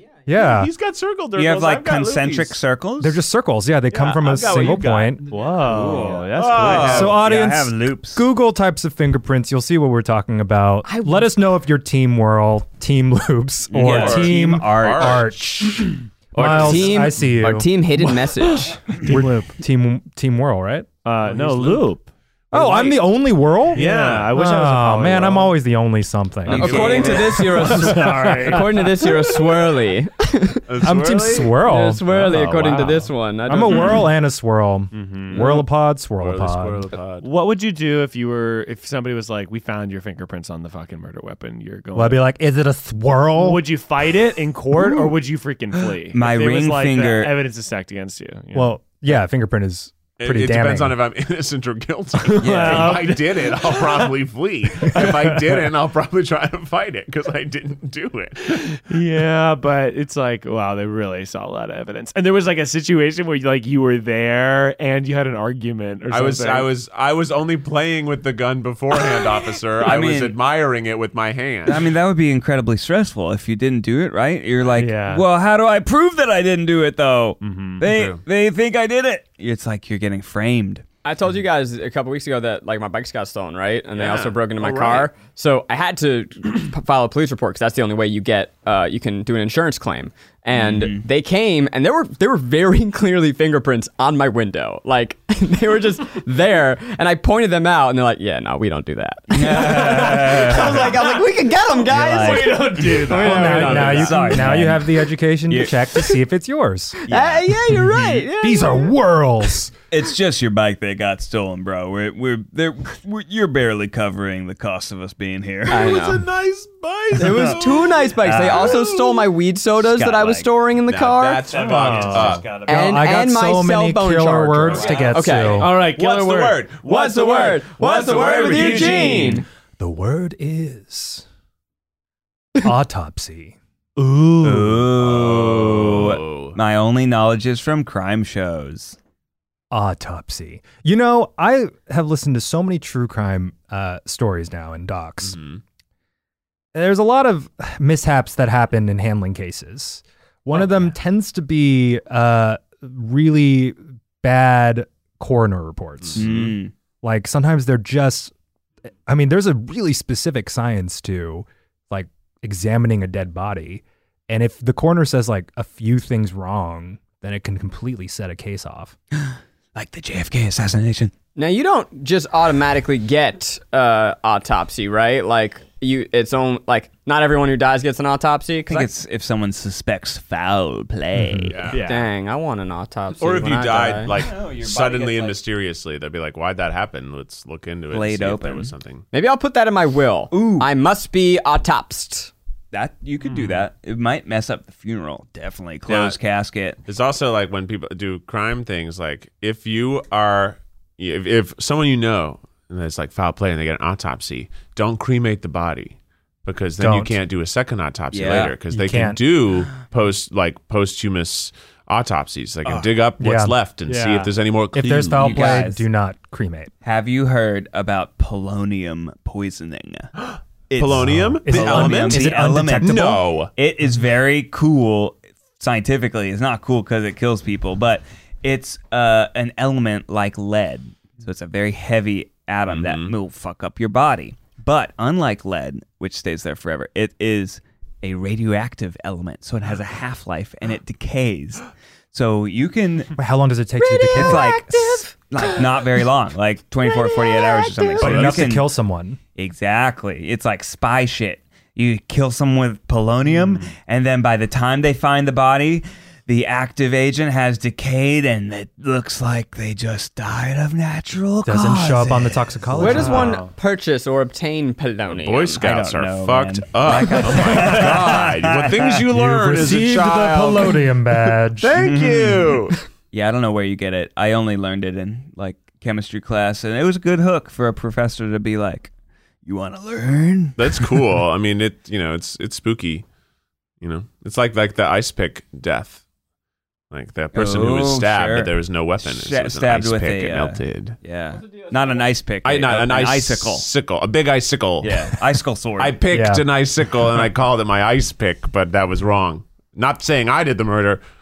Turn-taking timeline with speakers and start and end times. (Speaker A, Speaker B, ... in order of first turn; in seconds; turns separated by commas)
Speaker A: 0.3-0.7, Speaker B: 0.3-2.6, Speaker C: 1.3-3.2, Speaker A: 3.0-5.3, Speaker B: 3.9-5.2, Speaker D: 5.3-7.1, Speaker C: 5.7-8.2, Speaker B: 6.1-7.2, Speaker A: 6.8-17.8, Speaker E: 10.8-11.3, Speaker C: 13.7-15.3, Speaker B: 13.7-15.9, Speaker E: 16.3-18.8, Speaker D: 18.4-19.4, Speaker A: 18.9-20.9, Speaker D: 21.0-23.0, Speaker B: 21.2-21.8, Speaker A: 22.5-28.5, Speaker D: 23.7-25.6, Speaker B: 23.7-24.3, Speaker C: 26.4-28.1, Speaker B: 26.5-27.3, Speaker E: 26.5-30.6, Speaker D: 27.4-29.4, Speaker B: 30.7-31.6, Speaker A: 30.8-32.0, Speaker E: 31.6-34.0, Speaker D: 32.2-33.1, Speaker B: 32.3-32.9, Speaker A: 33.5-36.9, Speaker D: 33.7-34.0, Speaker D: 34.9-35.6, Speaker B: 36.2-37.3, Speaker D: 37.2-42.2, Speaker A: 41.9-43.6, Speaker D: 43.3-48.7, Speaker C: 46.1-47.3, Speaker A: 48.5-51.0, Speaker B: 50.2-58.9, Speaker D: 52.2-53.9, Speaker C: 52.4-53.1, Speaker A: 54.9-55.3, Speaker D: 58.9-66.7, Speaker B: 66.1-71.9, Speaker C: 69.8-70.3, Speaker C: 71.6-80.8, Speaker D: 74.7-75.2, Speaker D: 77.4-77.8, Speaker B: 77.8-78.2, Speaker E: 81.0-104.2, Speaker B: 84.0-85.1, Speaker C: 90.5-91.0, Speaker C: 99.3-101.1, Speaker D: 99.6-101.2, Speaker D: 101.8-104.4, Speaker C: 101.9-106.1, Speaker A: 103.2-107.0, Speaker C: 107.1-108.2, Speaker E: 107.1-108.9, Speaker A: 108.4-109.7, Speaker C: 109.9-116.0, Speaker E: 115.7-116.2, Speaker B: 115.7-119.2, Speaker E: 117.2-129.4, Speaker C: 118.2-118.8, Speaker C: 119.8-120.5, Speaker B: 120.9-122.5, Speaker D: 121.5-122.6, Speaker C: 121.9-122.8, Speaker A: 122.6-125.7, Speaker B: 124.7-129.4, Speaker C: 124.7-125.1, Speaker D: 125.5-126.5, Speaker A: 129.8-131.2, Speaker A: 132.6-134.8, Speaker C: 134.4-139.0, Speaker B: 135.0-136.6, Speaker A: 139.7-145.4, Speaker B: 145.2-145.6, Speaker A: 146.7-156.3, Speaker B: 156.0-156.5, Speaker C: 156.2-156.7, Speaker A: 157.0-158.3, Speaker A: 159.1-168.9, Speaker C: 169.2-171.1, Speaker E: 171.3-178.9, Speaker C: 178.7-181.7, Speaker A: 181.2-181.5, Speaker B: 181.5-181.8, Speaker D: 181.7-182.1, Speaker E: 181.8-184.1, Speaker B: 183.2-189.0, Speaker C: 184.1-185.4, Speaker C: 187.9-188.7, Speaker E: 189.1-192.3, Speaker C: 190.3-190.7, Speaker C: 192.7-196.8, Speaker D: 193.3-193.6, Speaker B: 195.9-196.2, Speaker B: 196.8-215.6, Speaker A: 206.8-207.2, Speaker C: 208.1-208.5, Speaker A: 208.7-209.2, Speaker A: 213.2-213.6, Speaker D: 213.8-214.3, Speaker A: 214.7-216.7, Speaker C: 215.1-215.8, Speaker C: 216.8-220.1, Speaker B: 220.2-223.5, Speaker C: 220.7-243.1, Speaker A: 221.0-223.2, Speaker B: 232.7-233.1, Speaker A: 243.2-244.5, Speaker E: 243.8-245.5, Speaker C: 244.1-248.7, Speaker E: 246.8-248.0, Speaker A: 248.0-249.2, Speaker B: 248.0-248.5, Speaker C: 249.3-263.1, Speaker A: 261.4-263.4, Speaker E: 262.8-265.6, Speaker D: 262.9-263.5, Speaker B: 265.1-270.9, Speaker C: 265.6-269.0, Speaker A: 269.1-271.7, Speaker B: 271.6-272.8, Speaker C: 271.7-278.9, Speaker C: 279.4-281.0, Speaker B: 280.6-283.0, Speaker B: 283.8-286.0, Speaker B: 286.9-291.0, Speaker C: 287.3-293.6, Speaker B: 292.4-295.1, Speaker C: 294.8-296.0, Speaker B: 295.8-301.0, Speaker A: 296.1-296.4